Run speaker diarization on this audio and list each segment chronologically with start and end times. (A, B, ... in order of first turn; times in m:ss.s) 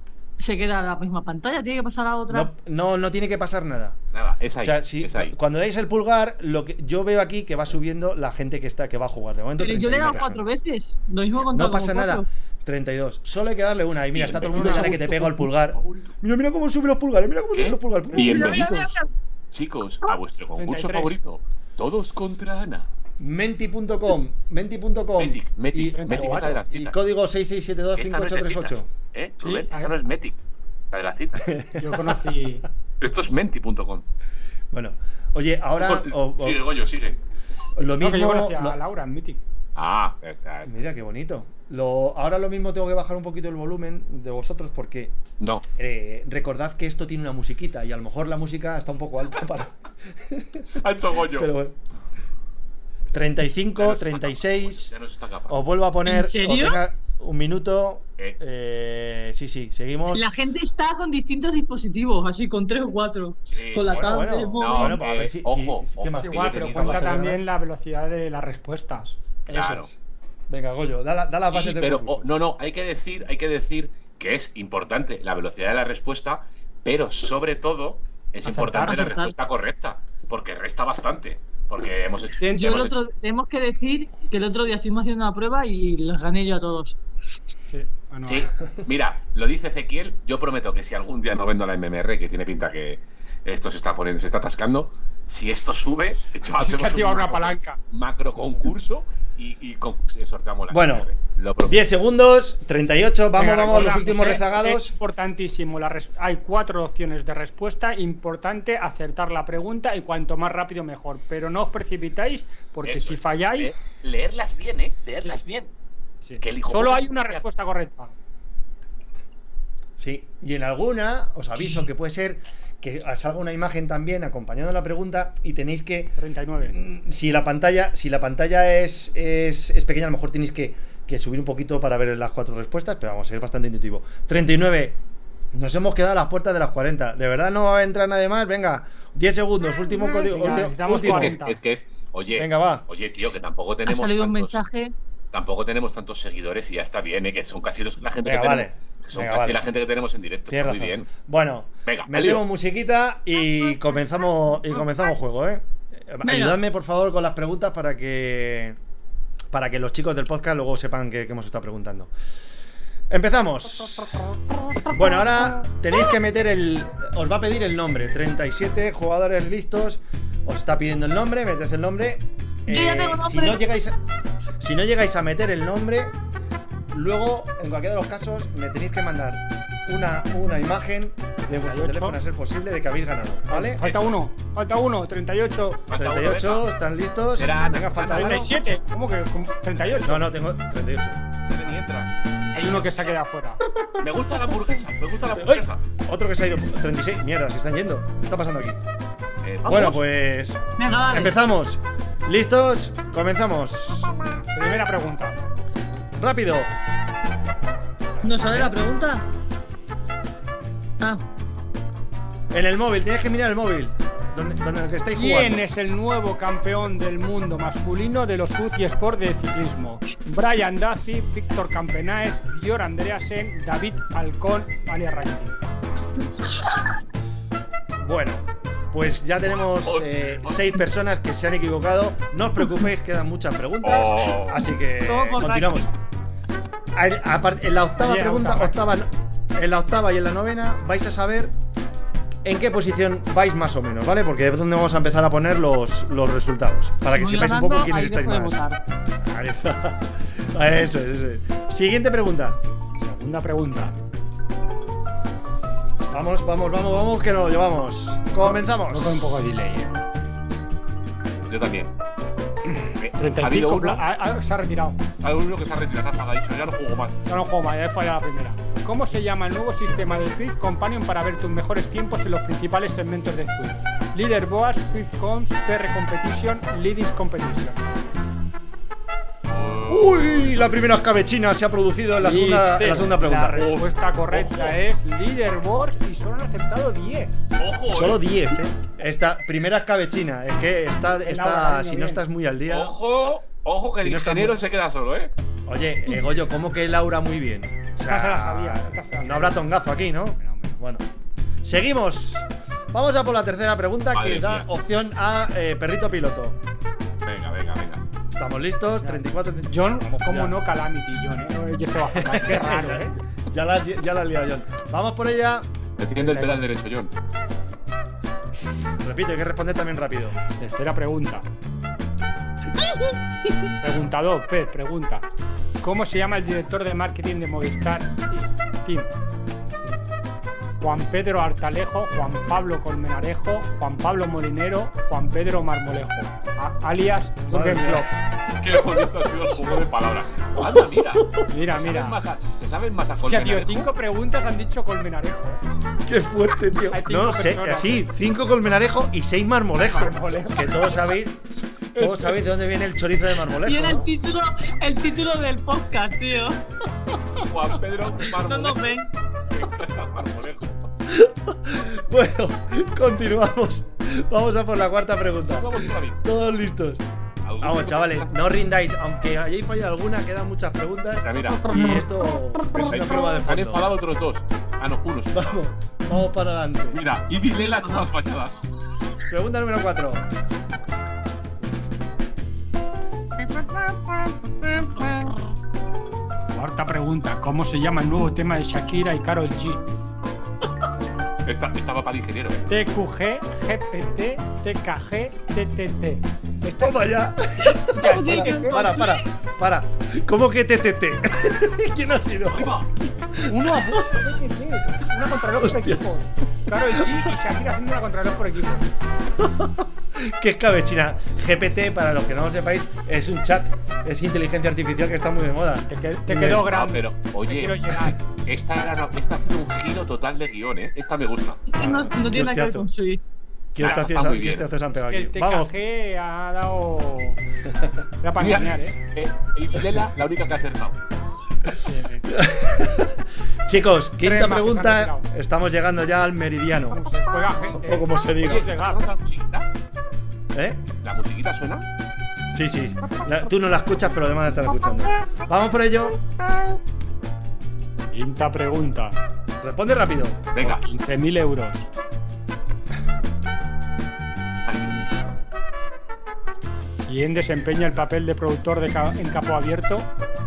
0:00.4-0:02.5 A
0:02.3-0:04.0 B
0:04.1-0:05.4 C
0:04.6-0:10.5 B
0:09.6-0:12.3 A
0:11.5-0:18.6 B
0:14.1-0:16.1 C
0:14.6-0:15.1 D
0:17.5-0:19.0 C
0:18.1-0:19.1 A
0:19.5-0:22.9 C
0:20.6-0:21.1 D
0:23.2-0:28.9 B
0:25.2-0:27.0 C
0:25.9-0:26.6 D
0:28.0-0:30.4 C
0:29.4-0:30.0 D
0:30.9-0:31.5 C
0:31.4-0:32.2 B
0:31.8-0:32.7 D
0:33.0-0:34.0 C
0:34.7-0:36.6 B
0:35.8-0:37.2 C
0:37.8-0:38.8 B
0:38.0-0:39.4 D
0:39.8-0:40.8 C
0:40.7-0:45.2 B
0:45.4-0:45.6 C
0:45.8-0:50.7 B
0:50.8-0:51.5 C
0:51.3-0:51.8 B
0:53.1-0:54.9 B
0:53.8-0:55.7 C
0:55.5-1:00.3 B
0:56.0-0:56.8 A
1:00.1-1:05.0 A
1:03.5-1:07.3 C
1:03.9-1:07.4 B
1:06.1-1:09.2 D
1:09.5-1:10.0 B
1:09.5-1:09.9 C
1:10.5-1:12.3 B
1:11.5-1:22.9 C
1:18.4-1:19.0 D
1:18.8-1:19.4 A
1:22.4-1:22.7 D
1:22.6-1:27.0 A
1:27.7-1:28.5 D
1:28.2-1:41.9 C
1:36.5-1:37.8 D
1:40.7-1:41.1 B
1:41.6-1:44.9 B
1:43.4-1:53.8 D
1:52.8-1:55.7 C
1:56.2-1:58.1 D
1:56.4-1:57.4 C
2:00.0-2:15.0 B
2:06.2-2:06.8 D
2:15.5-2:21.4 B
2:20.2-2:21.6 D
2:20.5-2:24.6 C
2:22.4-2:22.9 B
2:23.9-2:24.9 A
2:25.3-2:31.1 C
2:28.2-2:29.6 B
2:30.5-2:38.8 B
2:31.9-2:32.4 C
2:36.2-2:36.6 A
2:39.5-2:42.1 B
2:43.1-2:44.1 B
2:44.9-2:54.0 B
2:52.7-2:53.6 A
2:54.6-2:56.2 B
2:56.9-3:03.8 B
3:01.6-3:02.2 D
3:03.5-3:05.8 D
3:03.8-3:04.2 C
3:05.9-3:06.7 C
3:05.9-3:08.5 B
3:07.4-3:08.5 C
3:08.0-3:10.2 D
3:09.8-3:10.2 C
3:10.0-3:11.2 B
3:11.4-3:13.2 C
3:12.5-3:13.6 D
3:14.0-3:15.8 C
3:15.4-3:18.8 B
3:19.4-3:20.0 C
3:19.6-3:24.2 B
3:20.8-3:21.4 A
3:24.5-3:25.4 D
3:26.2-3:26.7 B
3:28.2-3:29.2 A
3:28.4-3:28.7 D
3:32.5-3:35.6 B
3:35.2-3:45.6 D
3:46.4-3:46.8 A
3:48.0-3:55.9 B
3:49.8-3:50.6 C
3:53.8-3:54.6 C
3:55.0-3:55.9 A
3:56.9-4:01.5 B
3:58.0-3:58.8 D
4:02.4-4:08.6 B
4:07.1-4:08.8 A
4:09.2-4:12.6 B
4:13.0-4:14.0 D
4:16.1-4:19.3 B
4:18.5-4:20.0 D
4:21.5-4:21.9 C
4:22.7-4:25.0 D
4:23.0-4:24.0 C
4:25.2-4:27.2 C
4:27.3-4:37.8 D
4:39.5-4:40.6 C
4:39.9-4:43.7 B
4:42.2-4:47.4 D
4:43.5-4:44.8 C
4:47.6-4:48.3 C
4:47.9-4:53.0 B
4:51.2-4:52.2 D
4:52.7-4:55.3 C
4:54.0-4:54.6 B
4:55.7-5:01.1 B
4:58.1-4:59.7 D
5:00.4-5:00.8 D
5:01.6-5:06.6 B
5:04.1-5:04.7 C
5:07.2-5:08.0 C
5:08.3-5:10.6 B
5:09.0-5:13.2 D
5:12.1-5:15.7 B
5:16.0-5:17.1 C
5:16.2-5:16.6 D
5:19.0-5:20.4 B
5:20.6-5:21.5 D
5:23.8-5:25.2 D
5:25.8-5:29.1 D
5:30.8-5:38.1 D
5:37.5-5:38.1 B
5:38.6-5:43.9 C
5:40.6-5:41.5 B
5:41.5-5:42.2 D
5:43.2-5:45.6 D
5:46.0-5:51.4 B
5:46.9-5:48.0 D
5:49.8-5:51.0 D
5:52.0-5:52.3 C
5:52.0-5:54.1 B
5:53.6-5:56.6 A
5:57.4-5:59.0 C
5:58.4-5:59.1 A
5:59.5-6:00.9 C
6:01.1-6:07.0 B
6:05.5-6:06.2 C
6:07.4-6:08.3 C
6:07.6-6:13.9 B
6:11.2-6:11.8 C
6:11.4-6:13.4 D
6:12.8-6:15.6 C
6:15.3-6:17.0 B
6:16.9-6:18.6 C
6:17.5-6:18.1 A
6:19.3-6:20.3 B
6:23.4-6:25.4 D
6:26.5-6:29.8 D
6:31.4-6:32.7 C
6:32.7-6:37.0 D
6:36.7-6:42.8 B
6:37.7-6:39.3 A
6:37.9-6:38.9 D
6:42.5-6:42.9 C
6:43.3-6:44.2 B
6:43.5-6:48.9 D
6:45.5-6:46.0 B
6:47.0-6:47.3 B
6:49.4-6:56.7 B
6:55.9-6:58.2 D
6:56.5-7:01.7 C
7:01.7-7:03.2 A
7:01.8-7:02.9 B
7:03.7-7:05.7 B
7:03.8-7:04.7 C
7:05.0-7:07.4 D
7:08.2-7:09.0 D
7:08.4-7:11.0 C
7:11.8-7:12.3 D
7:12.3-7:17.1 B
7:14.2-7:15.3 D
7:16.9-7:19.0 D
7:17.8-7:18.8 B
7:18.4-7:19.7 C
7:20.5-7:20.8 B
7:21.0-7:21.9 C
7:22.5-7:26.7 B
7:28.1-7:29.2 D
7:29.6-7:30.5 B
7:30.5-7:30.8 C
7:30.6-7:31.9 D
7:34.7-7:35.4 C
7:37.1-7:40.1 D